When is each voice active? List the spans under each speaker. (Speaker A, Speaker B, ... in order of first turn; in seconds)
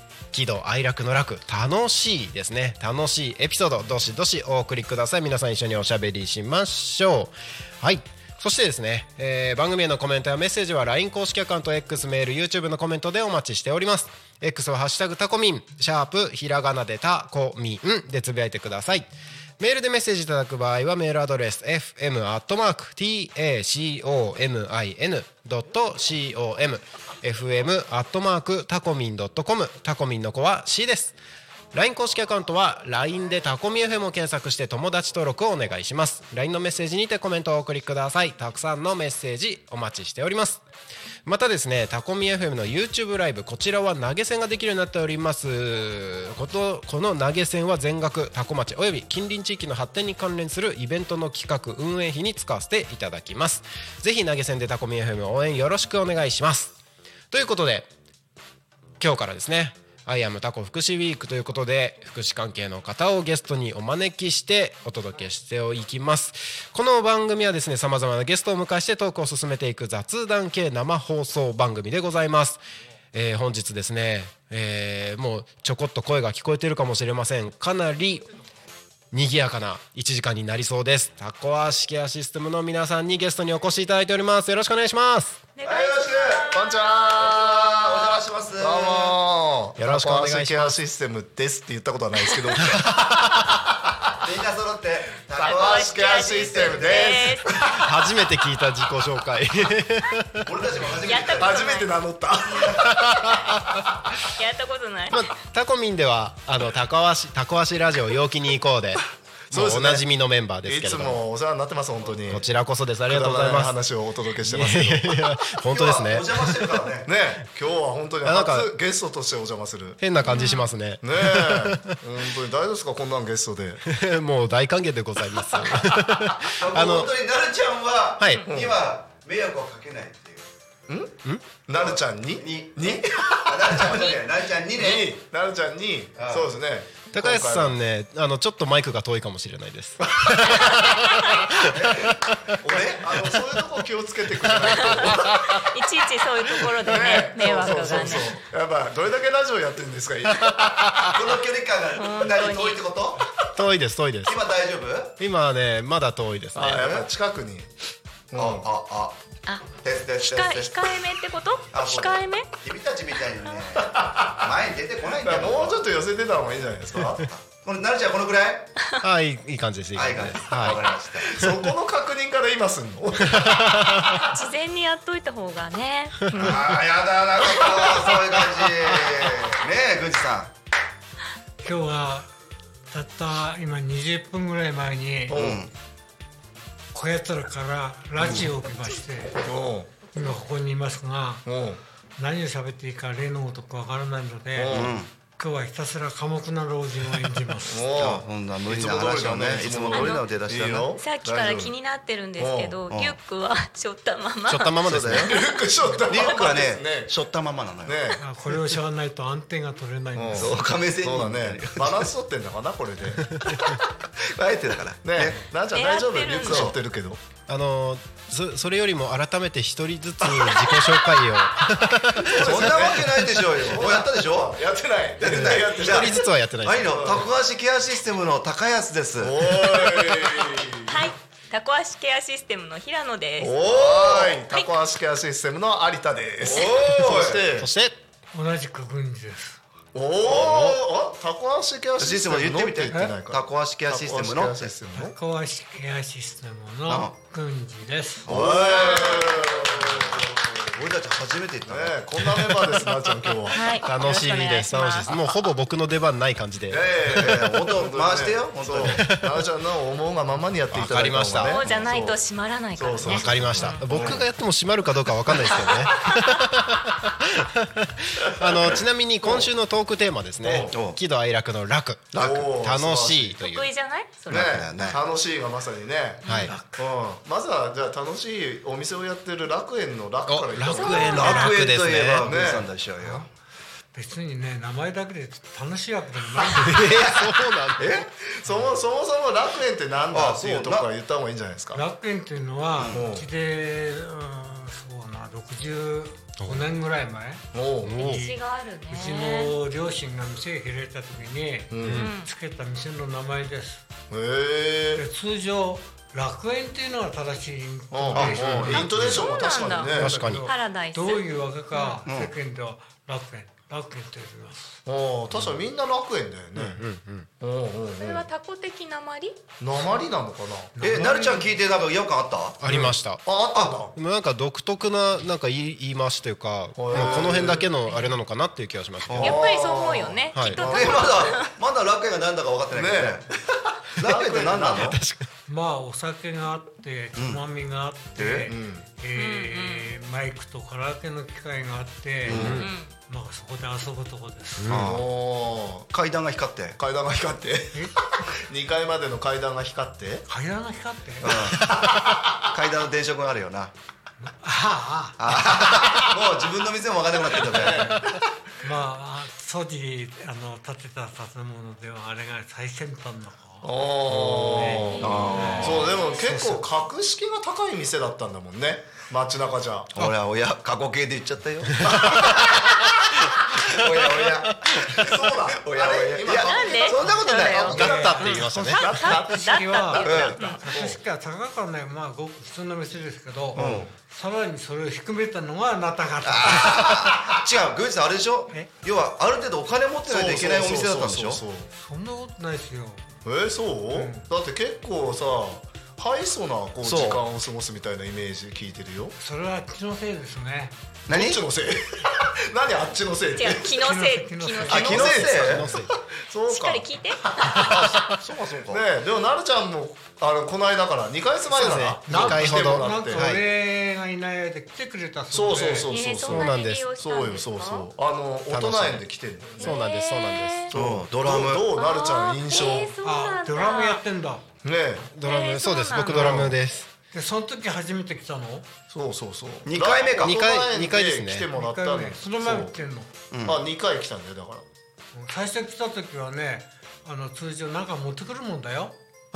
Speaker A: 0.3-31.1, 31.7-40.6, 41.2-56.7, 57.3-57.9, 59.0-72.6, 73.1-78.3, 79.1-85.4, 89.8-90.8, 92.6-93.5, 97.6-100.7, 102.8-103.8, 105.1-111.2, 112.3-113.8, 114.4-116.6, 118.2-118.7, 120.0-122.0, 123.9-127.1, 137.1-142.5, 144.5-145.3, 153.6-154.4, 155.2-156.9, 169.0-170.8, 173.3-174.2, 204.5-205.4, 217.5-222.8, 225.3-227.0, 237.1-238.0, 240.3-240.8, 252.3-252.8, 253.8-257.3, 258.8-259.5, 260.7-261.6, 263.1-273.7, 276.2-276.5, 280.3-282.3, 286.6-288.0, 296.4-296.7, 297.8-298.2, 301.8-302.1, 308.4-309.2, 309.9-310.5, 316.6-317.3, 322.6-323.2, 323.9-329.4, 334.8-335.3, 342.3-342.7, 344.6-345.0, 371.9-372.4, 374.0-375.1, 377.7-378.9, 405.4-405.9, 411.5-413.4, 416.3-416.9, 418.5-419.0, 419.6-420.7, 425.1-426.9, 430.2-431.5
Speaker B: 85.6-87.6, 95.4-97.7, 101.0-102.0, 104.4-105.3, 120.2-120.7, 140.8-141.5, 144.8-148.4, 152.0-152.8, 159.5-162.5, 174.1-176.3, 199.9-200.3, 200.9-204.8, 215.7-216.7, 230.9-233.5, 248.7-249.4, 253.5-255.1, 261.4-263.9, 273.4-274.6, 280.6-281.6, 298.0-299.5, 301.9-302.3, 309.1-312.0, 318.0-319.4, 329.2-331.5, 339.1-339.9, 342.5-342.9, 364.9-366.3, 376.4-377.9, 378.9-380.6, 403.4-405.2, 406.5-407.8, 415.9-417.9, 419.6-420.7, 421.8-424.0, 425.2-426.3
Speaker C: 85.6-86.5, 87.3-89.2, 94.2-97.1, 100.4-101.7, 115.7-117.1, 126.5-130.4, 131.7-135.1, 136.2-136.5, 141.6-143.2, 151.1-153.2, 154.3-155.1, 156.8-157.1, 158.3-159.2, 159.8-160.7, 161.7-165.8, 167.2-168.7, 169.9-171.3, 176.3-180.5, 185.3-185.7, 188.2-188.5, 194.7-195.1, 197.9-200.9, 202.9-203.2, 204.8-205.3, 206.1-208.1, 210.4-212.1, 214.3-215.5, 216.4-216.8, 222.2-224.6, 225.2-230.0, 233.4-234.4, 236.4-237.5, 240.3-240.7, 242.0-244.8, 246.9-247.1, 248.2-250.2, 250.7-252.1, 257.1-259.1, 270.7-271.0, 272.1-272.5, 274.3-275.0, 280.9-283.3, 286.9-287.3, 287.8-288.1, 290.1-290.9, 292.8-293.0, 308.1-309.2, 312.1-312.3, 320.8-322.6, 329.1-329.4, 330.6-333.3, 334.0-335.0, 337.1-337.4, 338.2-338.5, 342.3-342.6, 344.7-345.1, 345.9-346.8, 351.2-351.7, 352.5-353.7, 355.2-358.0, 364.2-365.9, 369.9-377.8, 380.0-380.4, 383.6-383.9, 386.2-391.4, 396.8-397.2, 401.1-401.4, 404.7-405.7, 407.6-408.8, 420.7-421.7, 429.7-430.4, 433.3-433.6
Speaker D: 86.5-94.1, 95.3-97.4, 101.3-103.5, 109.5-110.0, 110.7-112.5, 113.1-115.3, 117.1-120.0, 121.0-123.8, 128.5-128.8, 130.9-131.2, 131.7-137.8, 143.0-145.7, 146.8-151.1, 156.6-157.7, 158.3-158.7, 163.8-164.5, 165.2-167.3, 170.7-173.8, 176.3-176.8, 177.6-178.1, 185.3-185.7, 189.4-189.9, 191.5-191.8, 194.6-195.0, 197.6-201.7, 202.4-202.8, 205.2-207.1, 207.8-208.2, 210.2-213.4, 215.0-217.2, 222.3-226.3, 226.9-227.3, 229.2-231.1, 233.5-237.7, 239.9-245.2, 248.3-250.8, 251.7-253.7, 256.7-262.2, 262.8-264.3, 269.2-269.5, 270.4-270.8, 272.2-273.4, 274.3-281.5, 282.2-282.7, 288.2-291.8, 292.9-293.3, 297.5-298.0, 301.7-302.1, 304.1-305.0, 307.9-310.2, 314.9-316.8, 317.4-318.3, 319.6-320.7, 322.6-323.9, 326.8-327.7, 329.2-331.4, 332.7-333.3, 334.0-335.0, 338.5-338.8, 344.7-345.9, 346.8-350.3, 351.2-352.5, 357.4-358.1, 363.6-369.9, 374.9-379.6, 380.7-381.0, 383.6-383.9, 390.1-391.7, 393.2-399.1, 401.1-403.7, 404.7-406.9, 407.4-408.1, 408.7-413.3, 415.3-419.8, 420.7-422.9, 424.6-425.1, 426.1-426.5, 428.9-432.7, 433.4-434.6
Speaker E: 181.6-182.3, 182.9-185.4, 186.9-189.4, 190.1-191.5, 192.2-194.8, 195.4-197.8, 208.2-210.6, 238.3-239.6, 245.0-248.3, 276.3-276.9, 283.0-283.3, 283.9-286.9, 291.7-297.5, 298.0-298.3, 298.9-303.8, 305.0-308.9, 309.9-314.8, 320.8-321.5, 335.5-342.4, 343.0-344.7, 350.3-351.3, 354.2-355.2, 358.6-363.7, 364.5-366.6, 377.8-387.0, 391.7-393.0, 393.9-394.3, 399.2-400.8, 403.7-405.0, 412.1-415.9, 423.0-424.4, 426.1-426.5, 427.1-428.7, 431.5-433.1, 435.1-439.0